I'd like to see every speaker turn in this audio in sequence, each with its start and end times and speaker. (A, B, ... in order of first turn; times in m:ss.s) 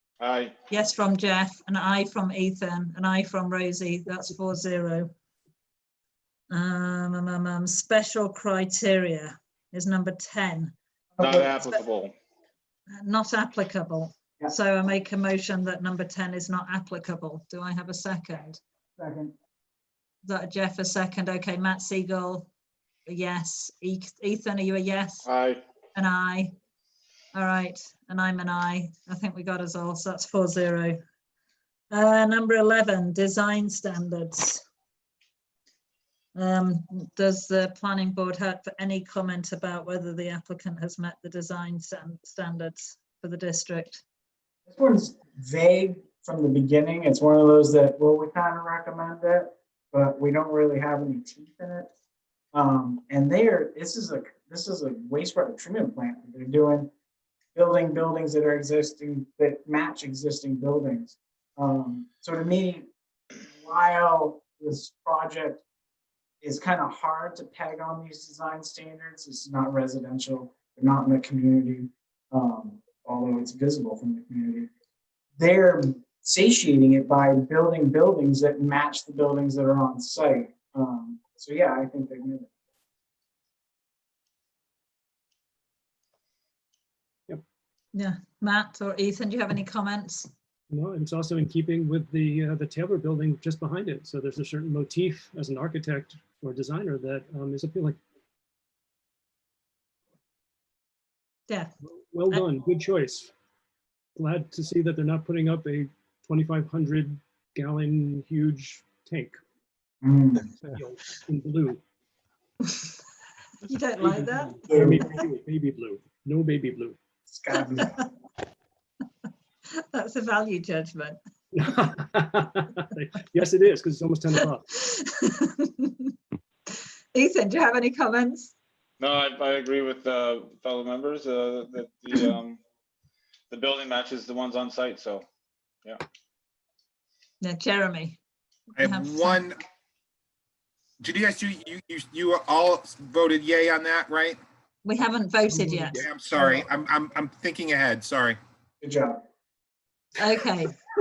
0:00.2-0:00.6 A
0:00.7-0:05.1 B
0:06.5-0:10.8 B
0:11.2-0:11.5 C
0:11.2-0:12.1 A
0:12.9-0:18.6 B
0:19.0-0:19.3 C
0:20.2-0:22.5 B
0:23.1-0:25.3 B
0:25.3-0:25.6 A
0:26.0-0:26.5 B
0:27.3-0:31.0 B
0:31.9-0:34.6 B
0:36.4-0:44.0 B
0:44.7-0:51.9 C
0:52.5-0:56.9 C
0:57.6-1:02.9 C
1:03.4-1:05.6 C
1:06.4-1:14.7 C
1:15.4-1:22.5 C
1:27.9-1:30.3 B
1:30.7-1:38.0 D
1:41.5-1:41.7 B
1:41.9-1:43.3 D
1:44.2-1:49.4 D
1:50.0-1:50.5 C
1:50.7-1:51.8 D
1:53.6-1:54.6 B
1:54.0-1:57.0 D
1:54.7-1:55.1 C
1:57.3-1:58.1 C
1:57.6-1:58.0 B
1:59.7-2:01.2 B
2:01.5-2:04.7 D
2:04.7-2:06.1 B
2:07.1-2:08.5 B
2:09.0-2:12.6 A
2:13.5-2:15.2 A
2:17.4-2:18.2 B
2:18.8-2:19.4 B
2:18.8-2:19.6 E
2:21.0-2:24.4 E
2:24.8-2:26.1 B
2:25.6-2:25.8 D
2:25.9-2:28.4 E
2:28.8-2:29.2 C
2:30.2-2:30.8 B